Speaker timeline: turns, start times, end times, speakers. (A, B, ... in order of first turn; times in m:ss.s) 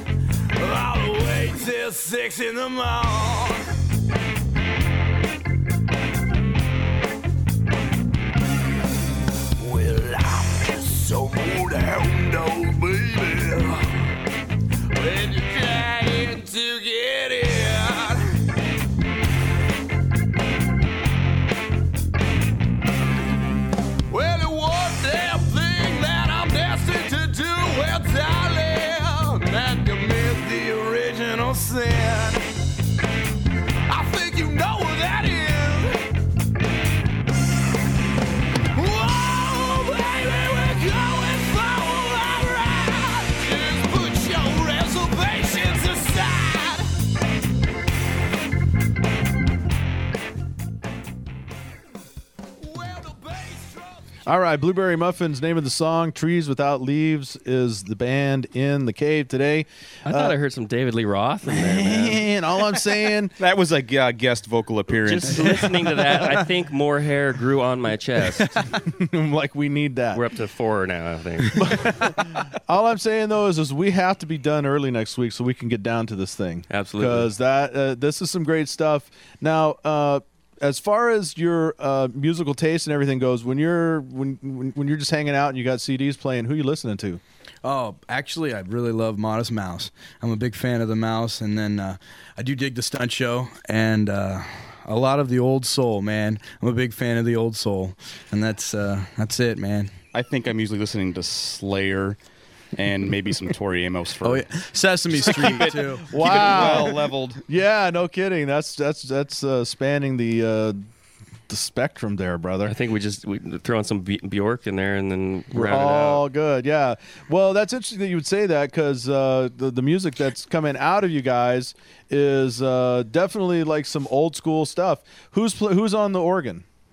0:00.6-0:03.6 A
0:09.6-0:13.8 A
0:15.0-0:18.2 A
0:24.1-0:32.4 A
0:33.9-0:36.0 A
0:38.8-0:46.8 A
0:52.7-0:53.8 A
0:54.3-1:00.4 B
1:00.1-1:02.2 C
1:01.5-1:03.3 B
1:03.4-1:05.6 D
1:05.0-1:08.6 C
1:08.6-1:10.2 B
1:10.1-1:12.1 C
1:11.5-1:27.2 B
1:16.7-1:17.3 C
1:27.6-1:39.9 E
1:40.1-1:42.2 D
1:42.8-1:44.4 D
1:44.2-1:46.9 E
1:45.1-1:47.4 D
1:45.4-1:50.8 B
1:51.5-1:52.7 B
1:52.7-1:56.2 C
1:55.5-2:06.6 B